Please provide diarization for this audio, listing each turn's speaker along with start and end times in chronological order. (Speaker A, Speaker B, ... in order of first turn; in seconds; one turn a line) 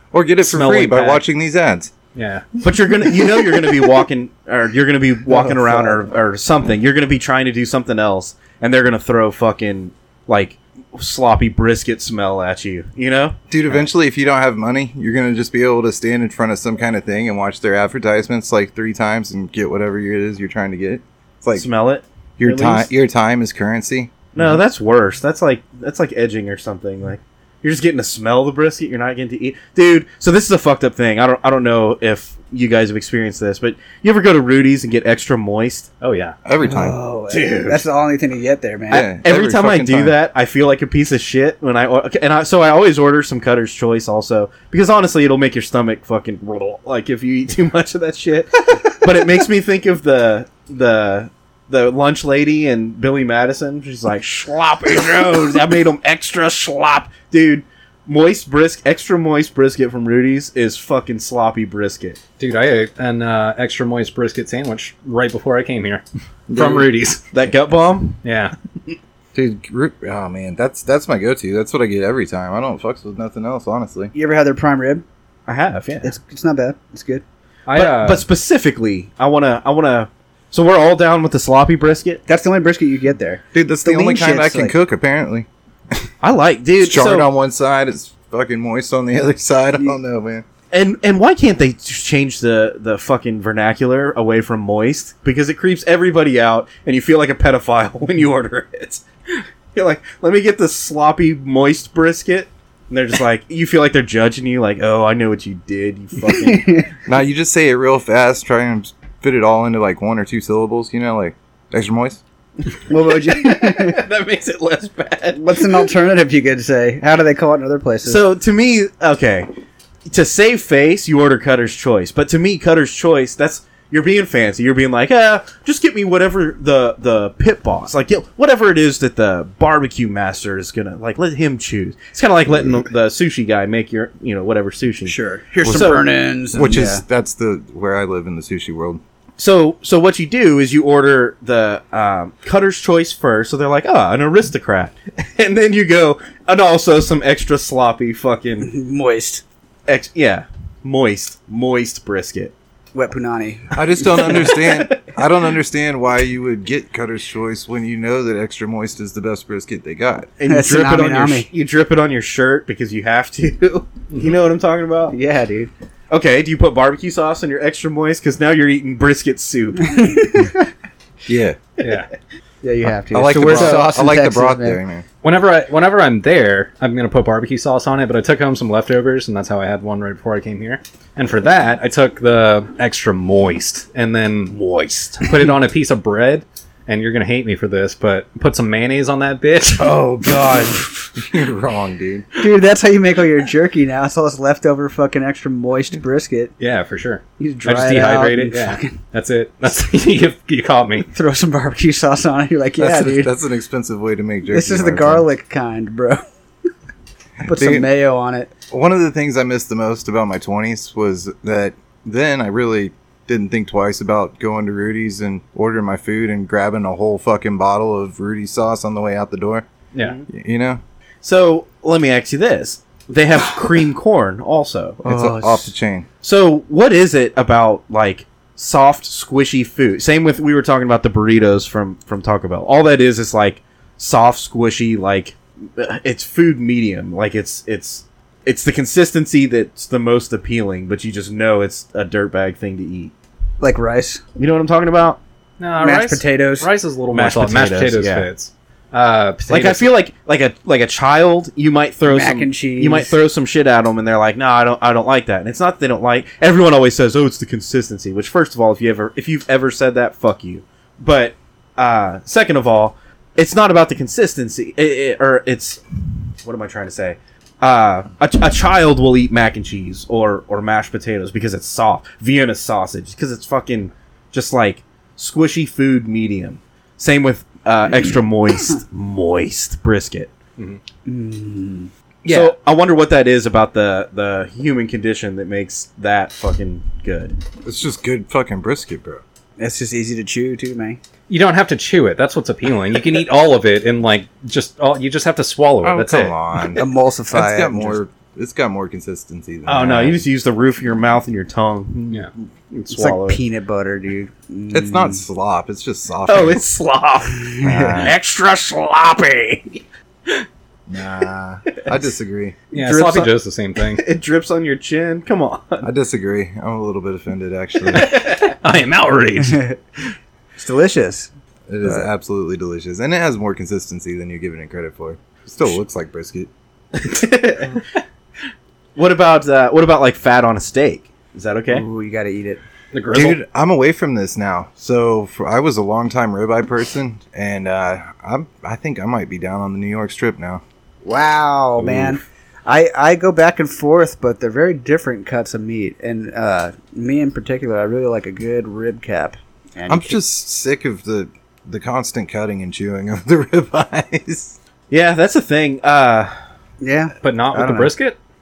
Speaker A: 0.1-1.9
Speaker B: 0.4-1.2
Speaker B: 2.1-2.5
Speaker C: 2.6-13.4
Speaker D: 5.3-6.1
Speaker A: 13.5-21.7
Speaker C: 21.6-22.9
Speaker A: 22.4-24.5
Speaker C: 24.4-35.9
Speaker B: 36.0-36.4
Speaker A: 36.5-37.0
Speaker D: 36.6-39.1
Speaker C: 37.3-37.8
Speaker A: 38.9-40.2
Speaker C: 38.9-62.2
Speaker B: 62.4-67.2
Speaker A: 66.5-66.9
Speaker C: 67.3-68.2
Speaker B: 68.2-68.5
Speaker A: 69.3-74.1
Speaker D: 74.1-75.0
Speaker C: 75.5-76.1
Speaker D: 76.0-77.2
Speaker B: 77.7-78.2
Speaker C: 77.7-82.2
Speaker D: 82.3-84.8
Speaker A: 83.5-86.1
Speaker C: 86.2-87.3
Speaker A: 86.8-90.5
Speaker C: 90.7-106.9
Speaker D: 106.3-106.9
Speaker A: 107.1-112.2
Speaker C: 112.7-115.9
Speaker D: 112.9-114.0
Speaker D: 115.4-118.2
Speaker C: 118.0-119.5
Speaker C: 120.1-136.1
Speaker D: 135.1-137.0
Speaker A: 136.5-139.0
Speaker C: 139.4-148.7
Speaker D: 148.6-149.4
Speaker C: 149.9-152.5
Speaker D: 152.9-154.5
Speaker A: 153.7-160.3
Speaker C: 154.1-155.1
Speaker C: 160.4-165.2
Speaker D: 160.4-161.5
Speaker D: 165.1-165.7
Speaker C: 166.1-170.4
Speaker D: 169.9-170.6
Speaker A: 171.2-171.6
Speaker B: 171.8-172.1
Speaker D: 172.6-174.8
Speaker A: 173.1-175.1
Speaker B: 173.4-173.9
Speaker B: 175.2-190.5
Speaker C: 184.6-185.2
Speaker C: 189.8-190.9
Speaker A: 191.2-192.2
Speaker D: 192.4-196.5
Speaker B: 196.6-201.1
Speaker D: 197.4-199.0
Speaker D: 201.1-203.3
Speaker A: 202.8-205.2
Speaker D: 204.5-206.2
Speaker A: 207.4-207.9
Speaker D: 207.4-208.5
Speaker A: 208.7-219.7
Speaker C: 220.0-220.2
Speaker A: 220.3-220.8
Speaker C: 221.2-225.0
Speaker A: 225.0-226.1
Speaker D: 225.1-225.7
Speaker C: 226.2-243.1
Speaker D: 243.6-244.2
Speaker C: 244.4-245.2
Speaker B: 245.6-249.9
Speaker D: 245.8-246.7
Speaker C: 247.1-248.3
Speaker C: 249.5-265.8
Speaker D: 252.1-253.1
Speaker C: 266.4-280.3
Speaker D: 281.1-281.9
Speaker B: 282.2-282.6
Speaker C: 282.2-287.4
Speaker A: 287.6-289.2
Speaker D: 289.6-291.0
Speaker B: 291.3-296.4
Speaker A: 295.8-300.2
Speaker D: 296.8-298.0
Speaker C: 299.6-303.4
Speaker D: 302.9-305.2
Speaker A: 304.7-306.6
Speaker C: 306.3-310.4
Speaker D: 307.4-308.1
Speaker A: 307.6-308.1
Speaker A: 310.9-312.6
Speaker B: 312.7-314.0
Speaker C: 312.7-315.9
Speaker A: 315.8-318.1
Speaker C: 317.9-318.5
Speaker B: 318.0-319.6
Speaker D: 319.4-319.8
Speaker D: 320.6-321.3
Speaker A: 321.7-326.5
Speaker C: 326.9-327.8
Speaker C: 328.9-331.9
Speaker D: 331.7-332.6
Speaker B: 332.9-333.4
Speaker A: 333.1-340.6
Speaker D: 341.0-350.2
Speaker A: 341.8-342.2
Speaker A: 349.9-354.6
Speaker C: 354.9-356.4
Speaker D: 356.8-357.9
Speaker B: 357.2-358.2